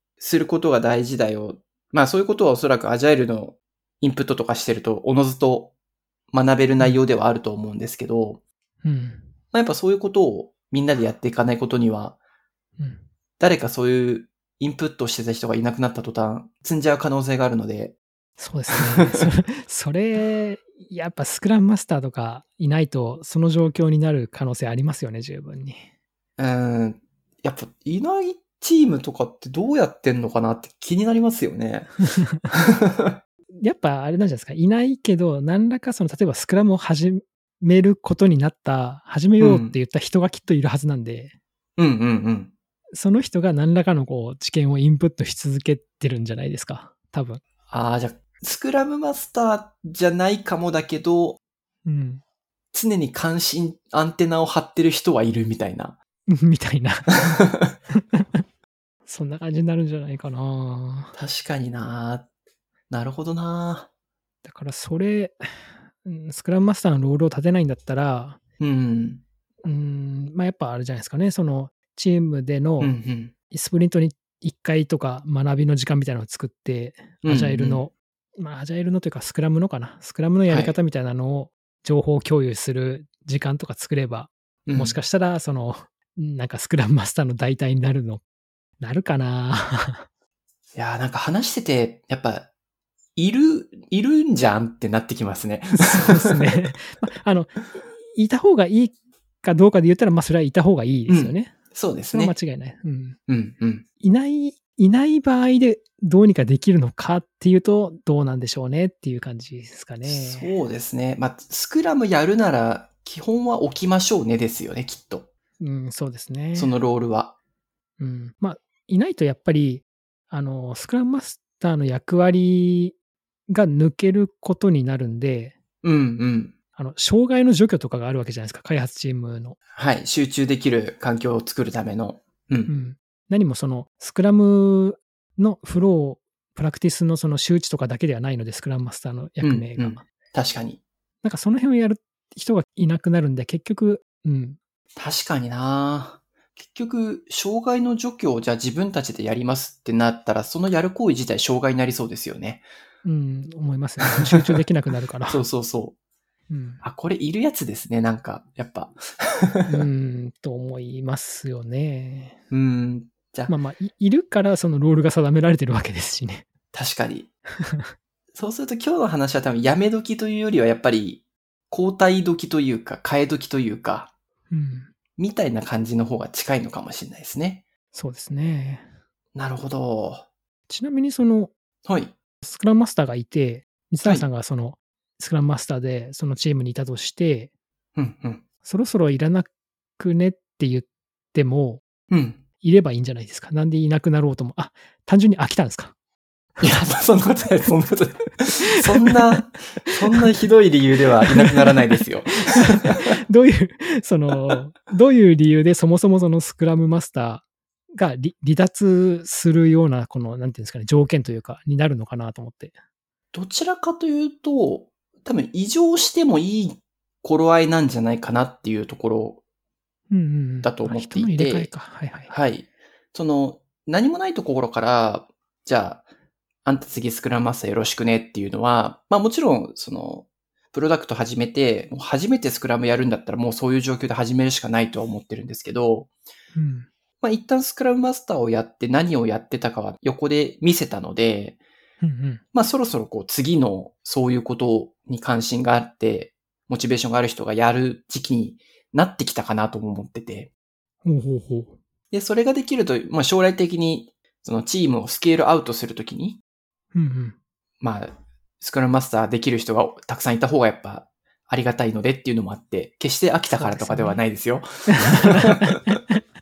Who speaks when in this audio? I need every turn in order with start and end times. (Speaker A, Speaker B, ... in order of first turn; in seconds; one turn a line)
Speaker A: 0.2-5.7
Speaker A: 6.3-8.4
Speaker B: 8.8-9.3
Speaker A: 9.5-12.2
Speaker B: 12.8-13.1
Speaker A: 13.4-17.9
Speaker B: 18.4-25.9
Speaker A: 18.7-19.2
Speaker A: 26.4-33.2
Speaker B: 32.1-32.5
Speaker B: 33.5-41.3
Speaker A: 39.4-39.8
Speaker A: 41.8-42.5
Speaker B: 42.9-47.4
Speaker A: 47.7-51.4
Speaker B: 51.8-52.2
Speaker A: 52.7-56.0
Speaker B: 56.3-57.2
Speaker A: 57.3-57.7
Speaker B: 57.9-58.4
Speaker B: 59.0-61.1
Speaker A: 61.1-62.2
Speaker A: 62.9-63.9
Speaker B: 64.4-68.4
Speaker A: 68.6-69.2
Speaker B: 69.6-72.9
Speaker A: 72.8-73.3
Speaker B: 73.5-88.2
Speaker A: 77.2-77.8
Speaker A: 80.5-80.8
Speaker A: 84.7-85.0
Speaker B: 88.8-90.0
Speaker A: 90.7-92.5
Speaker A: 93.2-96.7
Speaker B: 95.8-101.5
Speaker A: 101.1-102.3
Speaker B: 102.1-103.2
Speaker A: 103.3-103.8
Speaker B: 104.0-110.5
Speaker A: 110.0-115.3
Speaker B: 115.6-116.7
Speaker A: 116.5-117.3
Speaker B: 118.0-123.0
Speaker B: 123.5-125.6
Speaker A: 125.8-126.5
Speaker B: 126.8-129.6
Speaker A: 129.8-132.7
Speaker B: 132.7-140.0
Speaker A: 139.4-140.8
Speaker B: 141.2-144.6
Speaker A: 144.9-152.7
Speaker B: 153.0-155.4
Speaker A: 154.0-154.6
Speaker A: 155.3-155.9
Speaker B: 156.5-156.8
Speaker A: 156.8-159.8
Speaker B: 159.7-162.4
Speaker A: 162.5-163.5
Speaker B: 163.5-166.4
Speaker A: 166.7-167.3
Speaker B: 167.6-167.9
Speaker A: 168.3-174.1
Speaker B: 174.5-174.9
Speaker A: 175.2-177.6
Speaker B: 177.9-178.9
Speaker A: 179.3-180.2
Speaker B: 180.7-181.5
Speaker A: 181.8-182.1
Speaker B: 182.4-187.5
Speaker A: 187.9-188.4
Speaker B: 188.6-191.8
Speaker A: 192.1-192.4
Speaker B: 192.6-195.9
Speaker A: 196.6-203.1
Speaker B: 198.8-199.2
Speaker B: 201.4-201.7
Speaker B: 202.5-212.8
Speaker A: 213.3-219.4
Speaker B: 220.1-222.3
Speaker A: 220.6-221.7
Speaker A: 222.3-226.0
Speaker A: 226.6-236.1
Speaker B: 236.5-236.9
Speaker A: 237.2-241.6
Speaker B: 242.0-242.4
Speaker A: 242.5-250.5
Speaker B: 251.0-251.8
Speaker A: 252.1-256.4
Speaker B: 256.9-257.4
Speaker A: 257.8-265.8
Speaker B: 263.6-264.2
Speaker B: 264.9-266.2